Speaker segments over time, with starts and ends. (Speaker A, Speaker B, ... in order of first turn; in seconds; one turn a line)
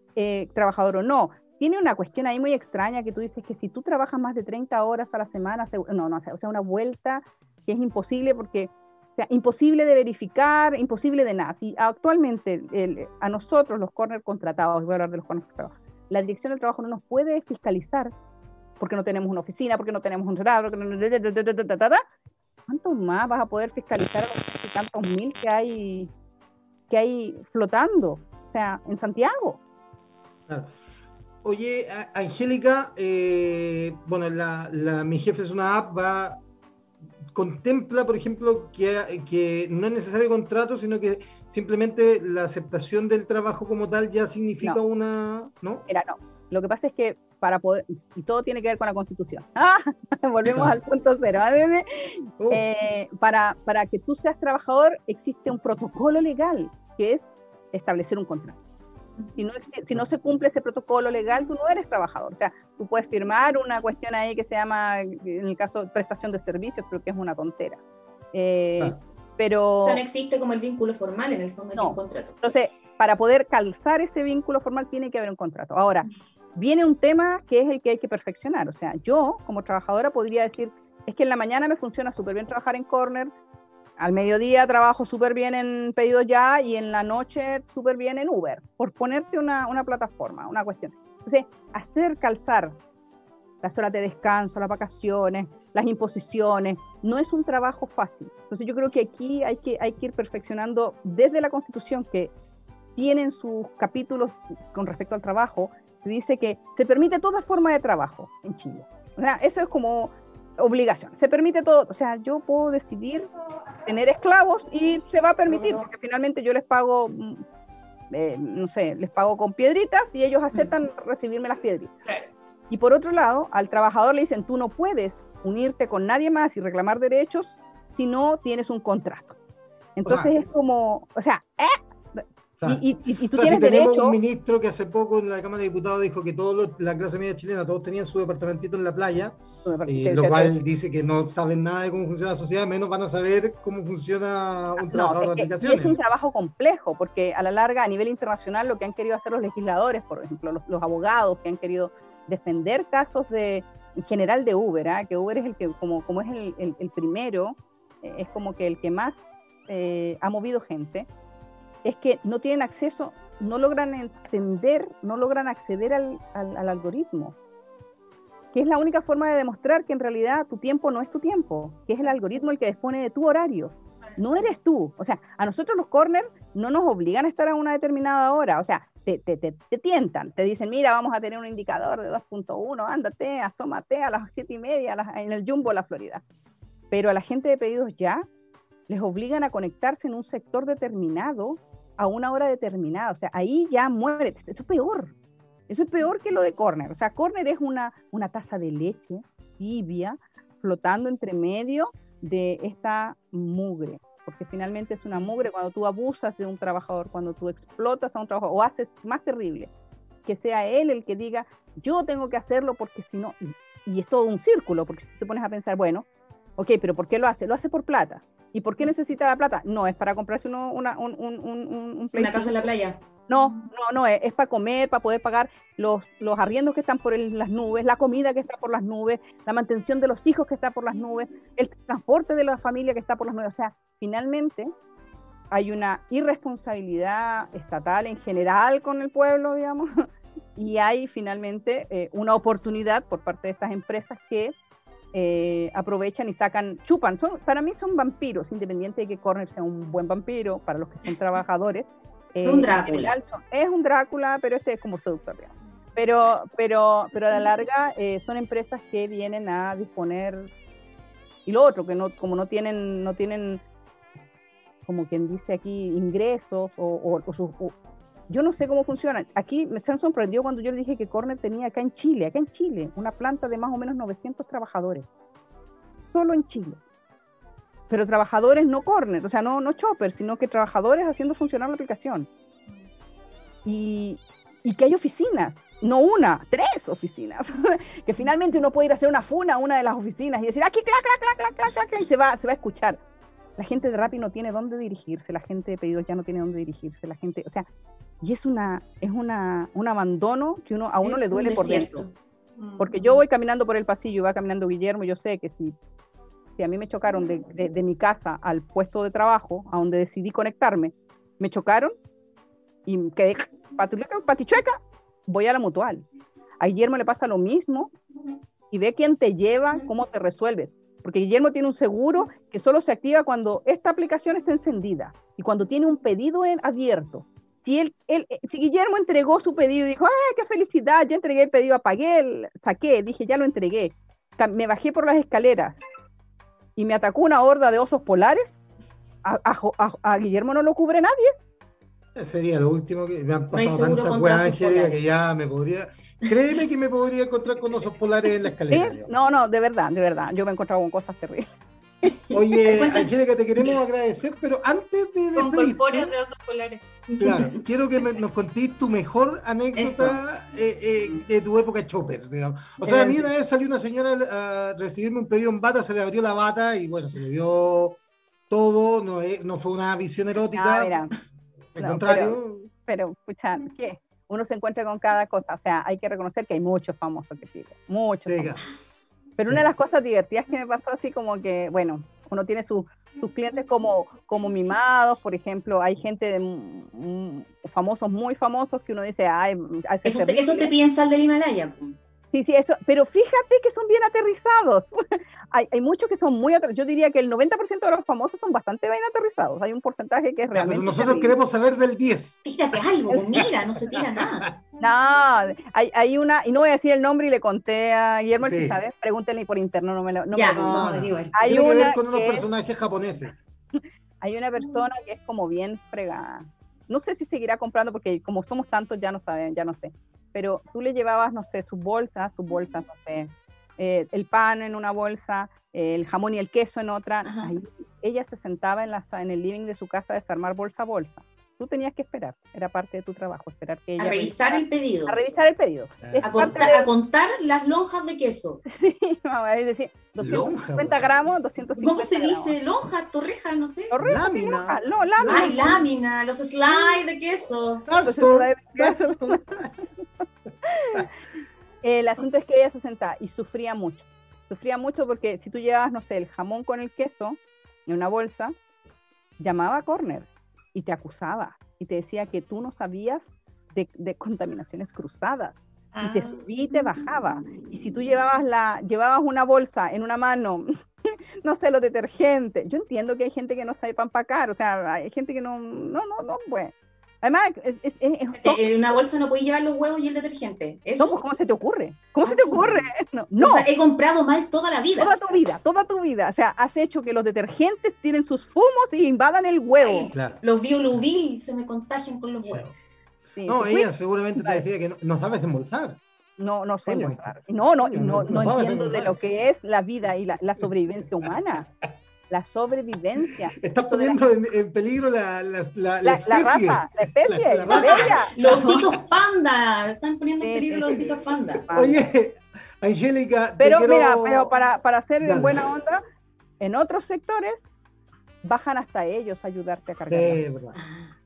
Speaker A: 0.1-18.1
Speaker A: 18.8-22.0
Speaker A: 22.7-26.1
Speaker A: 26.9-29.6
Speaker B: 31.4-36.4
Speaker B: 37.3-45.8
Speaker A: 45.9-58.6
Speaker B: 52.4-52.6
Speaker A: 59.4-67.8
Speaker A: 68.3-70.0
Speaker C: 69.8-72.5
Speaker A: 71.7-83.3
Speaker A: 84.0-92.8
Speaker A: 93.6-102.3
Speaker A: 103.0-113.3
Speaker A: 113.8-117.4
Speaker A: 118.1-121.9
Speaker A: 122.7-129.3
Speaker A: 129.9-134.2
Speaker B: 130.1-130.3
Speaker B: 132.6-146.0
Speaker A: 139.6-140.5
Speaker A: 144.8-161.1
Speaker A: 161.8-167.3
Speaker A: 168.5-186.2
Speaker A: 186.9-188.2
Speaker A: 188.9-195.1
Speaker A: 195.7-209.7
Speaker A: 210.2-216.1
Speaker A: 216.6-222.7
Speaker C: 222.1-223.0
Speaker A: 223.3-234.7
Speaker A: 235.5-240.1
Speaker A: 240.6-244.5
Speaker A: 245.1-260.5
Speaker C: 252.4-253.1
Speaker A: 261.4-263.6
Speaker A: 264.9-267.8
Speaker A: 268.3-275.1
Speaker A: 276.1-276.8
Speaker A: 277.9-282.3
Speaker A: 283.6-293.0
Speaker A: 293.6-297.7
Speaker A: 298.2-302.0
Speaker C: 301.0-302.1
Speaker D: 302.6-302.9
Speaker A: 302.8-305.7
Speaker A: 306.6-311.9
Speaker A: 312.9-316.0
Speaker A: 316.6-317.9
Speaker A: 318.7-335.8
Speaker A: 336.8-338.6
Speaker A: 339.2-341.3
Speaker B: 342.1-349.1
Speaker C: 343.5-345.0
Speaker A: 348.7-351.5
Speaker C: 352.3-353.1
Speaker B: 352.3-356.1
Speaker D: 355.4-356.8
Speaker B: 357.2-370.9
Speaker C: 359.8-360.2
Speaker A: 362.8-363.3
Speaker A: 370.5-371.1
Speaker B: 371.7-372.7
Speaker A: 371.8-378.5
Speaker B: 378.3-378.6
Speaker A: 379.4-390.7
Speaker C: 390.0-392.0
Speaker A: 392.3-401.3
Speaker B: 400.5-404.6
Speaker C: 402.4-404.5
Speaker A: 404.8-412.4
Speaker B: 408.4-408.8
Speaker C: 410.3-411.3
Speaker B: 410.6-413.4
Speaker A: 413.8-436.9
Speaker C: 427.2-427.5
Speaker C: 434.0-435.2
Speaker B: 436.0-436.6
Speaker C: 436.2-438.6
Speaker A: 438.7-442.6
Speaker B: 440.2-441.2
Speaker C: 441.8-443.9
Speaker A: 443.9-445.8
Speaker B: 444.0-445.8
Speaker C: 445.2-447.9
Speaker B: 447.9-449.8
Speaker A: 448.0-449.6
Speaker A: 450.7-451.0
Speaker A: 451.8-458.5
Speaker A: 459.4-478.6
Speaker D: 465.9-466.4
Speaker C: 478.4-481.2
Speaker A: 481.0-483.7
Speaker C: 482.2-482.8
Speaker C: 483.4-485.2
Speaker A: 485.0-490.1
Speaker C: 489.8-492.7
Speaker B: 490.1-490.4
Speaker B: 492.5-492.7
Speaker A: 493.4-494.6
Speaker B: 493.5-496.0
Speaker A: 496.4-501.7
Speaker B: 496.9-497.2
Speaker B: 497.8-499.1
Speaker A: 502.3-504.2
Speaker B: 503.6-508.8
Speaker A: 506.0-508.3
Speaker C: 507.7-511.7
Speaker D: 508.4-508.8
Speaker A: 510.4-511.0
Speaker B: 510.8-514.5
Speaker A: 511.7-512.0
Speaker A: 513.6-516.0
Speaker B: 515.2-515.6
Speaker A: 516.6-517.7
Speaker A: 518.4-520.4
Speaker B: 520.1-520.8
Speaker C: 520.7-521.1